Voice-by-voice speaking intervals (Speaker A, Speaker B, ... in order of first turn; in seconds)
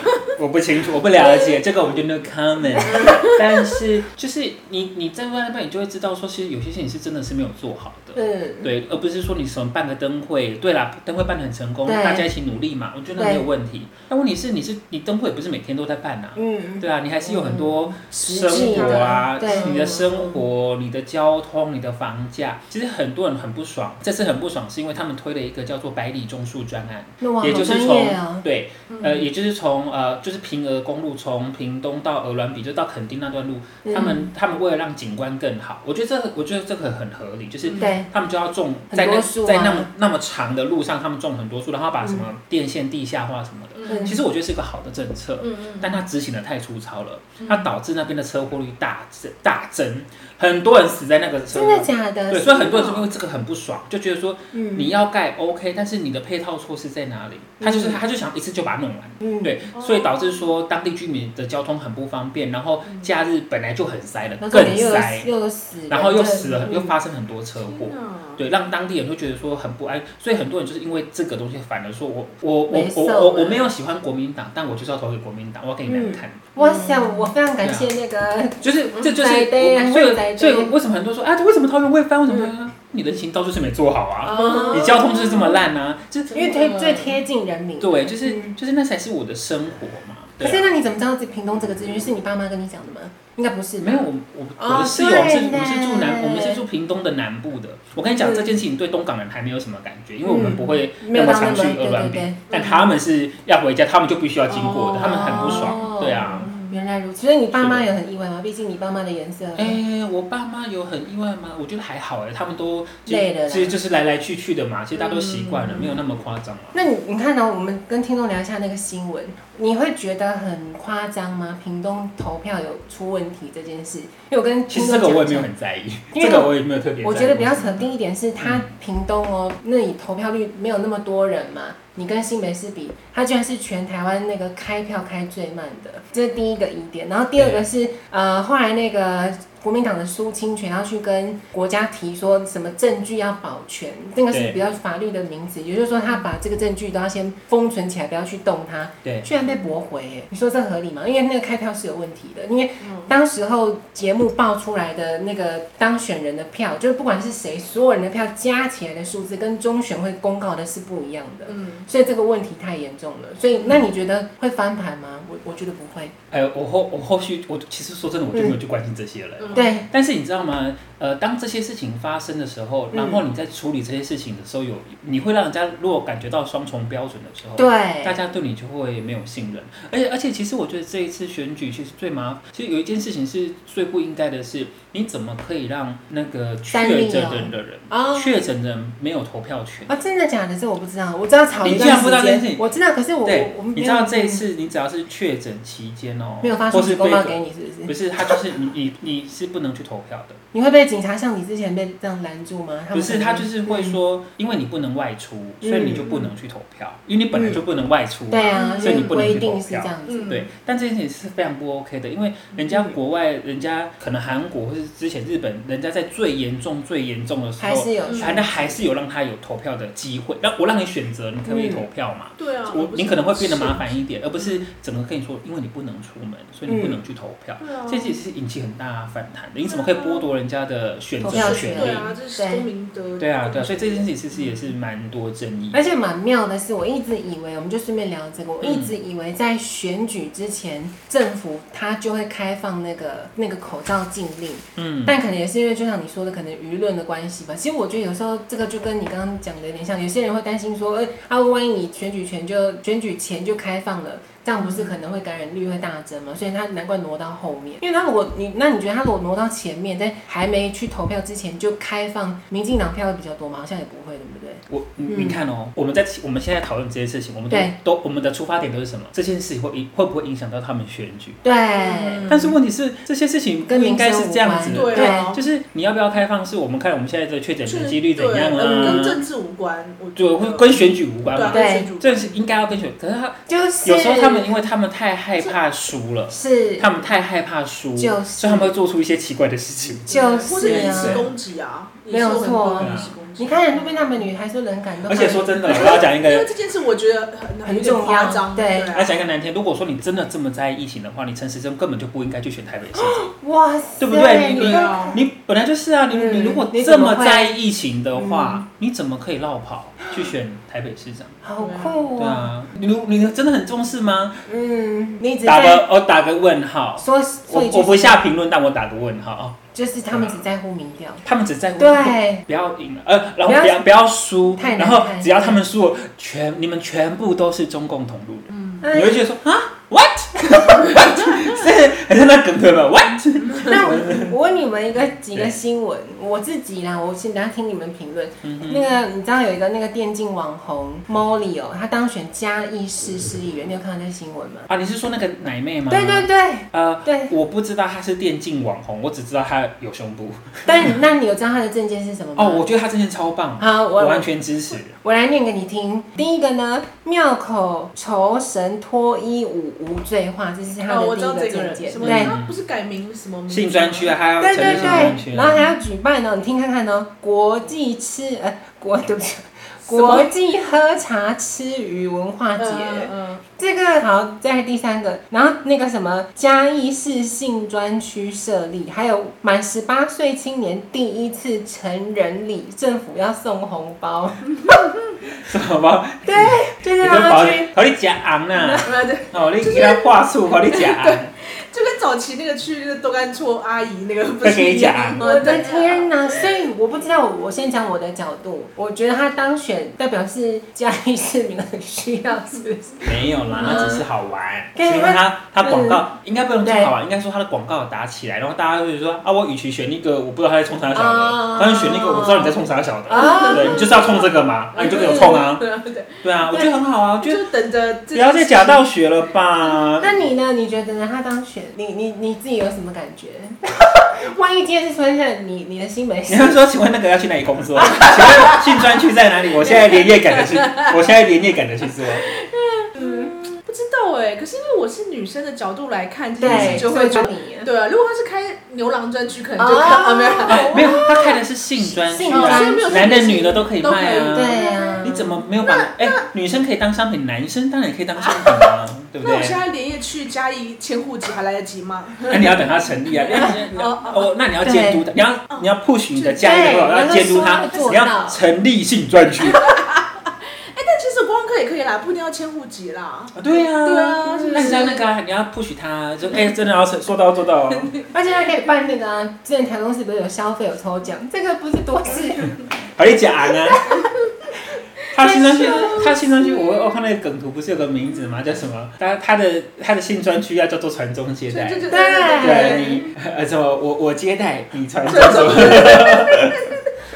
Speaker A: 0.2-65.3, 65.9-76.5, 77.6-77.9, 78.6-86.5, 87.8-90.7, 93.8-106.5, 107.5-107.9, 109.6-116.8, 124.7-127.9, 128.4-128.7, 137.4-137.6, 144.3-144.6, 166.3-189.9, 191.6-192.6, 193.2-197.3, 197.9-200.4, 202.9-232.1, 233.2-235.8, 238.6-238.9, 244.8-245.2, 264.7-271.4, 272.3-279.2, 280.2-291.3, 292.8-293.2, 295.1-296.5, 298.9-303.3, 304.0-311.4, 312.2-314.4, 315.4-320.4, 321.2-334.4, 335.3-335.6, 338.4-339.0, 344.7-351.0, 352.4-354.9, 362.0-362.6, 363.5-365.6, 385.4-391.3, 394.4-395.6, 403.0-415.7, 416.2-417.4, 418.1-420.2, 426.3-432.3, 436.4-436.9, 440.5-449.6, 452.3-459.8, 463.4-467.9, 473.0-473.9, 475.1-486.7
Speaker B: 1.2-1.5, 2.9-3.1, 8.2-8.7, 11.9-12.3, 13.2-13.5, 16.4-20.2, 27.2-28.4, 33.8-34.3, 37.8-38.1, 38.9-39.9, 43.9-44.2, 51.5-52.7, 54.5-54.9, 57.6-58.0, 59.2-59.5, 64.4-66.9, 72.7-73.7, 75.9-80.7, 82.3-82.5, 84.2-85.7, 86.3-88.6, 90.4-96.6, 98.2-98.6, 100.2-102.4, 104.9-109.8, 113.1-113.8, 116.7-125.5, 126.1-166.1, 169.5-169.9, 172.9-173.2, 177.6-178.2, 186.7-188.3, 189.9-194.4, 196.4-198.4, 200.5-204.0, 205.6-206.3, 207.3-207.6, 208.3-210.4, 212.7-213.0, 217.6-218.8, 221.5-221.8, 226.7-227.0, 231.2-232.7, 235.7-265.4, 267.5-267.8, 271.4-272.3, 273.7-275.4, 278.6-279.2, 281.5-281.9, 283.5-284.6, 286.3-287.0, 288.0-288.8, 290.1-291.3, 292.1-296.0, 297.6-298.9, 302.9-305.2, 306.1-307.6, 308.1-308.6, 311.4-312.5, 314.5-315.9, 317.0-318.2, 319.7-321.2, 321.8-322.4, 323.5-323.9, 324.5-325.6, 328.8-329.2, 333.6-344.7, 345.9-347.3, 350.7-352.7, 353.6-354.3, 355.0-362.4, 364.4-384.6, 386.3-387.7, 388.6-388.9, 395.2-404.1, 404.8-406.1, 406.6-406.9, 410.9-415.4, 420.0-426.6, 433.0-433.4, 436.4-437.7, 439.6-443.6, 444.3-445.4, 454.6-455.0, 456.4-458.4, 464.3-464.9, 468.1-472.6, 473.4-474.1, 475.2-476.1, 481.9-483.0
Speaker C: 2.9-3.4, 18.5-20.2, 28.9-29.3, 37.7-38.0, 43.8-44.2, 45.4-46.0, 47.4-47.7, 52.5-53.1, 59.7-60.5, 62.9-63.1, 67.7-68.4, 76.6-77.3, 84.3-85.0, 86.4-87.1, 102.5-102.9, 104.5-106.8, 115.0-116.0, 149.5-149.7, 152.8-153.1, 161.5-161.9, 169.4-169.8, 208.5-209.2, 210.1-210.4, 218.1-218.4, 222.4-224.7, 227.6-228.2, 229.7-230.3, 231.3-234.6, 254.6-254.9, 271.8-272.6, 274.7-275.4, 277.7-282.4, 290.1-294.3, 295.6-299.2, 304.4-305.2, 311.6-312.0, 328.5-328.8, 330.9-331.6, 360.9-365.6, 369.9-370.3, 372.6-373.4, 388.8-396.6, 403.6-403.9, 413.3-414.1, 414.7-416.3, 417.2-418.8, 428.0-428.8, 429.6-431.0, 432.1-441.1, 442.2-446.3, 448.2-454.3, 455.5-457.8, 459.4-465.1, 467.7-468.0, 475.2-476.8, 481.5-483.0, 485.1-486.9